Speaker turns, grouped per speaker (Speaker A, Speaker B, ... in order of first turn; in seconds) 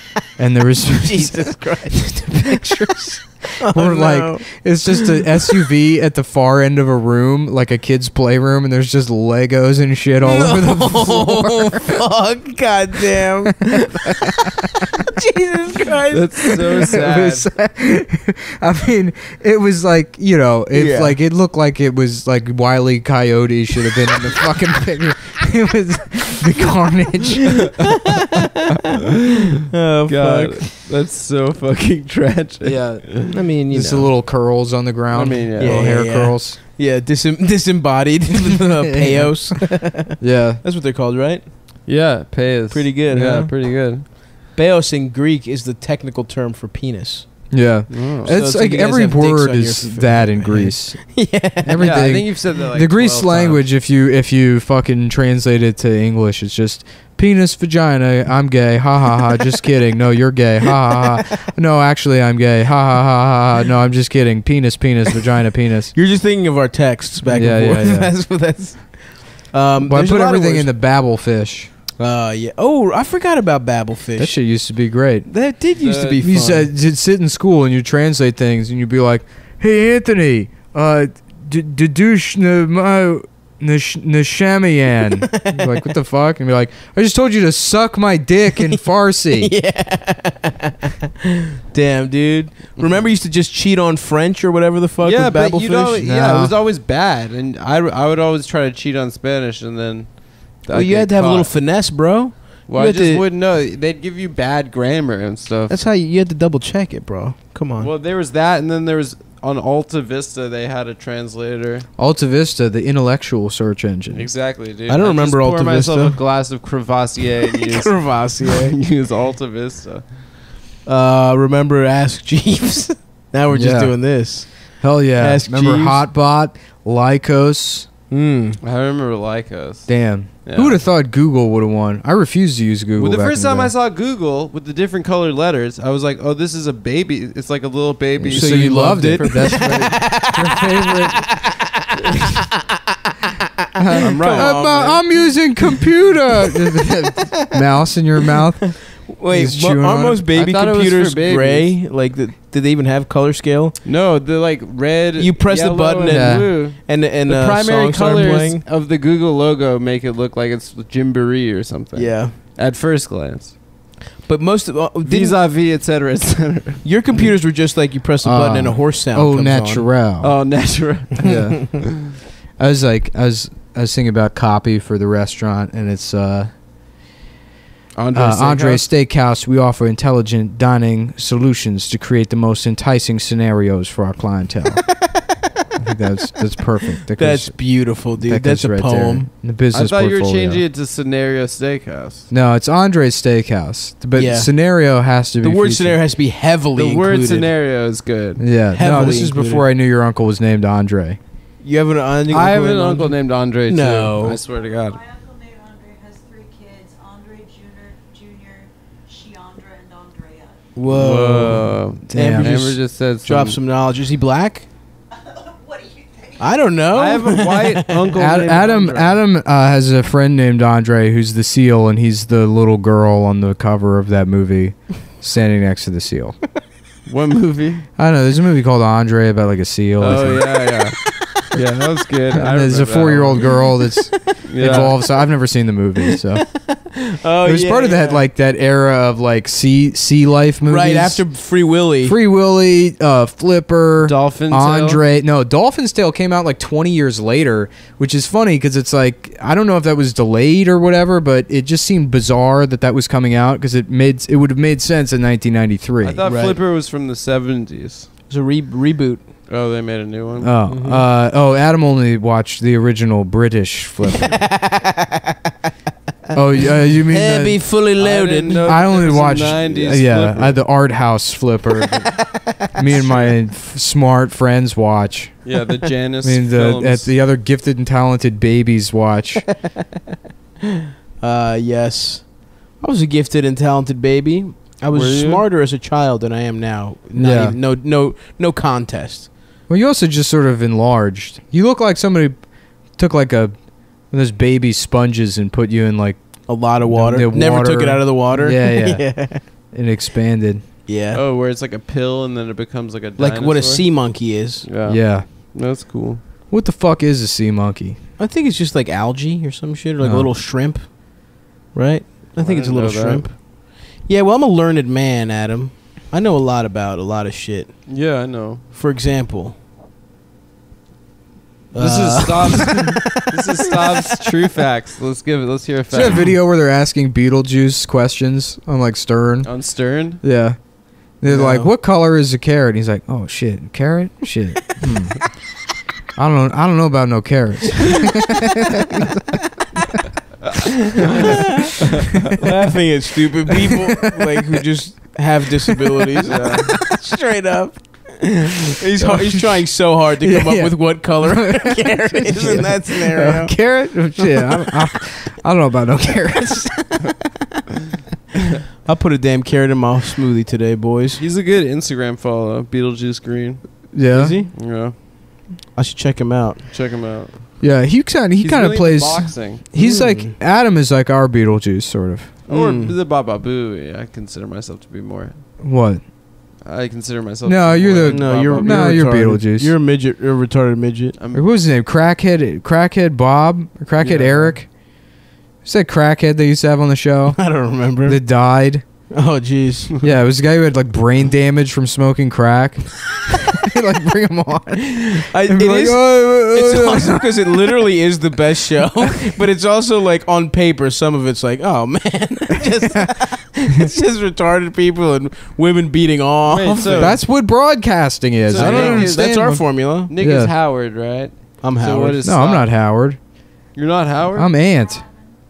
Speaker A: 0.4-12.0, 13.7-14.5, 16.8-27.9, 32.6-33.1, 33.7-36.6, 40.2-40.6, 47.5-51.0, 51.6-65.9, 67.3-68.1, 69.8-71.7, 74.2-75.3, 76.2-89.5, 96.0-96.5, 112.0-114.3, 123.5-124.0, 124.8-127.9, 129.9-133.7, 138.2-141.3, 143.8-148.8, 149.3-150.2, 156.1-156.5, 168.2-170.3, 171.2-171.9, 172.6-176.5, 178.1-184.8, 185.8-187.6, 188.2-190.6, 192.3-196.0, 198.4-201.2, 212.1-212.6, 218.2-226.4, 228.0-230.5, 232.3-236.5, 237.4-241.2, 242.0-256.2, 260.4-264.4, 266.3-267.6, 268.6-272.2, 272.7-275.4, 276.2-279.4, 287.2-287.6, 289.7-292.4, 293.0-293.5, 294.1-296.2, 296.9-299.1, 299.7-300.6, 304.9-305.3, 306.5-308.0, 310.0-310.3, 325.9-329.5, 330.2-330.6, 331.2-335.2, 336.2-339.2, 343.9-344.6, 349.0-349.6, 350.2-356.9, 363.9-364.4, 367.6-372.3, 375.6-376.0, 377.4-379.7, 381.3-384.7, 385.6-387.4, 388.1-388.8, 390.0-397.6, 406.9-409.6, 410.2-410.5, 412.2-413.2, 414.4-415.1
Speaker B: 0.9-2.8, 3.6-5.7, 10.2-17.1, 20.7-21.2, 27.8-28.6, 29.7-30.7, 33.3-34.1, 35.6-41.4, 42.7-43.5, 44.5-47.3, 48.3-52.0, 66.0-70.7, 72.0-74.3, 75.3-76.7, 85.2-85.7, 89.3-96.0, 100.7-103.2, 105.7-107.9, 114.9-116.2, 117.5-118.7, 120.9-126.0, 128.1-128.6, 138.3-142.6, 143.9-145.0, 146.4-147.6, 149.1-153.8, 155.2-158.6, 161.9-162.3, 164.3-165.4, 166.8-169.9, 187.2-189.3, 194.2-194.5, 195.4-197.5, 198.7-199.7, 201.6-203.2, 203.7-204.4, 210.8-214.7, 216.4-218.2, 236.1-238.2, 240.7-242.2, 256.2-256.6, 258.3-259.2, 260.7-261.1, 264.1-265.5, 267.0-268.7, 271.9-272.5, 280.7-282.3, 282.8-289.3, 296.5-299.4, 300.9-301.2, 303.2-304.7, 308.2-310.8, 311.7-313.3, 314.1-317.7, 318.7-319.6, 321.7-324.2, 331.3-331.7, 341.0-341.8, 342.4-353.6, 354.2-354.8, 358.9-361.2, 364.1-364.5, 365.8-366.6, 369.8-370.3, 372.5-372.9, 378.1-381.2, 387.3-388.2, 389.1-390.0, 395.1-407.2, 408.5-410.1, 411.6-412.2
Speaker C: 16.1-17.5, 28.7-29.3, 30.1-33.3, 35.1-35.9, 41.9-44.1, 47.9-48.4, 51.8-53.6, 75.8-76.2, 95.0-101.5, 102.7-105.8, 107.8-111.9, 114.1-120.0, 128.6-129.9, 130.4-130.8, 133.0-139.7, 143.9-144.9, 150.3-151.7, 153.8-163.5, 165.0-166.8, 170.2-171.7, 178.0-178.9, 189.7-192.3, 196.8-198.4, 202.3-205.0, 210.9-213.6, 216.9-219.2, 227.1-227.9, 230.0-231.0, 231.5-233.5, 234.5-235.0, 244.0-245.0, 256.0-258.1, 259.5-260.5, 268.0-270.6, 273.0-273.3, 275.4-277.1, 284.9-285.4, 301.1-303.9, 304.6-306.2, 312.4-313.3, 317.9-318.6, 321.8-326.3, 329.4-330.2, 341.0-342.4, 346.2-346.7, 361.2-363.9, 364.5-364.9, 366.7-367.3, 368.4-369.6, 372.5-375.4, 376.6-379.0, 381.2-381.4, 384.0-384.5, 406.5-407.1, 408.5-409.4, 410.1-412.7, 413.8-414.5
Speaker D: 204.5-210.7, 215.2-216.7, 414.6-415.3